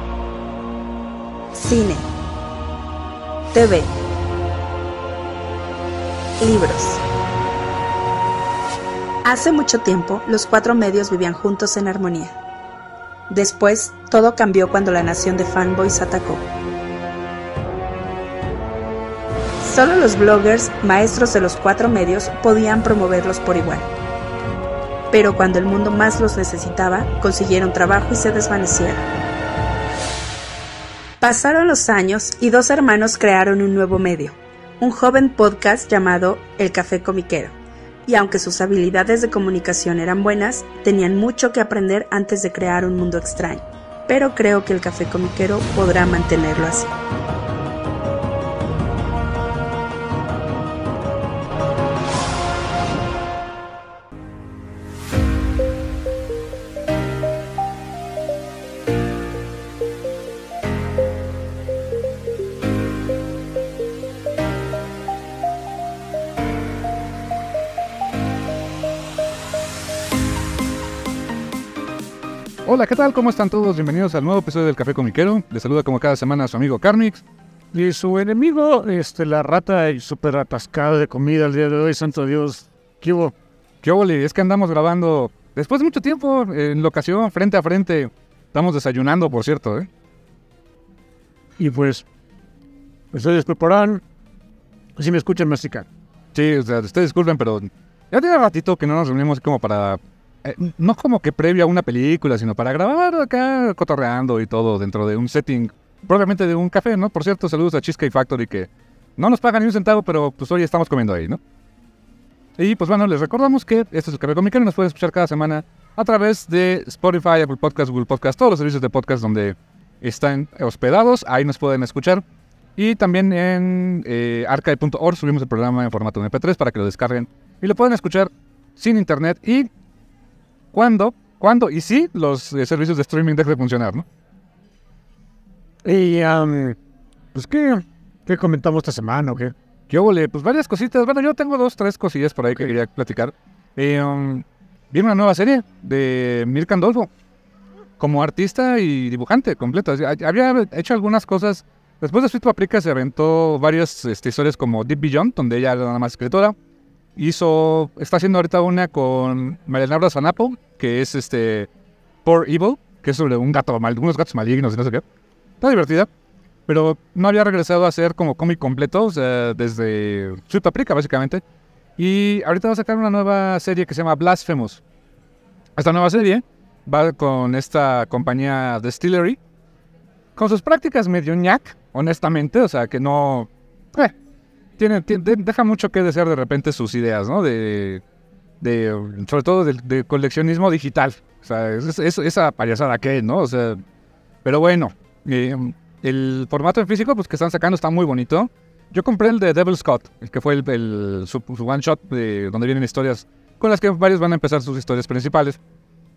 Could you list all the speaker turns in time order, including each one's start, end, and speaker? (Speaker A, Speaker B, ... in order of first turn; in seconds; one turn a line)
Speaker A: 1.5-2.1
Speaker A: 3.5-3.9
Speaker A: 6.4-7.0
Speaker A: 9.2-12.3
Speaker A: 13.3-16.4
Speaker A: 19.6-23.9
Speaker A: 25.1-29.1
Speaker A: 31.2-37.5
Speaker A: 38.1-46.9
Speaker B: 72.7-77.2
Speaker C: 77.7-83.3
Speaker B: 83.8-89.9
Speaker C: 91.6-92.0
Speaker C: 93.1-94.0
Speaker C: 95.0-95.9
Speaker B: 96.3-111.4
Speaker B: 112.6-122.2
Speaker B: 122.8-129.7
Speaker B: 130.7-134.1
Speaker C: 135.8-136.8
Speaker C: 137.3-139.5
Speaker B: 139.9-147.1
Speaker B: 148.0-156.6
Speaker B: 157.2-161.7
Speaker B: 162.2-165.0
Speaker B: 165.6-166.1
Speaker B: 166.7-171.4
Speaker B: 172.0-174.8
Speaker B: 175.8-179.4
Speaker B: 180.4-184.2
Speaker B: 184.8-188.0
Speaker B: 188.6-193.8
Speaker B: 194.4-205.6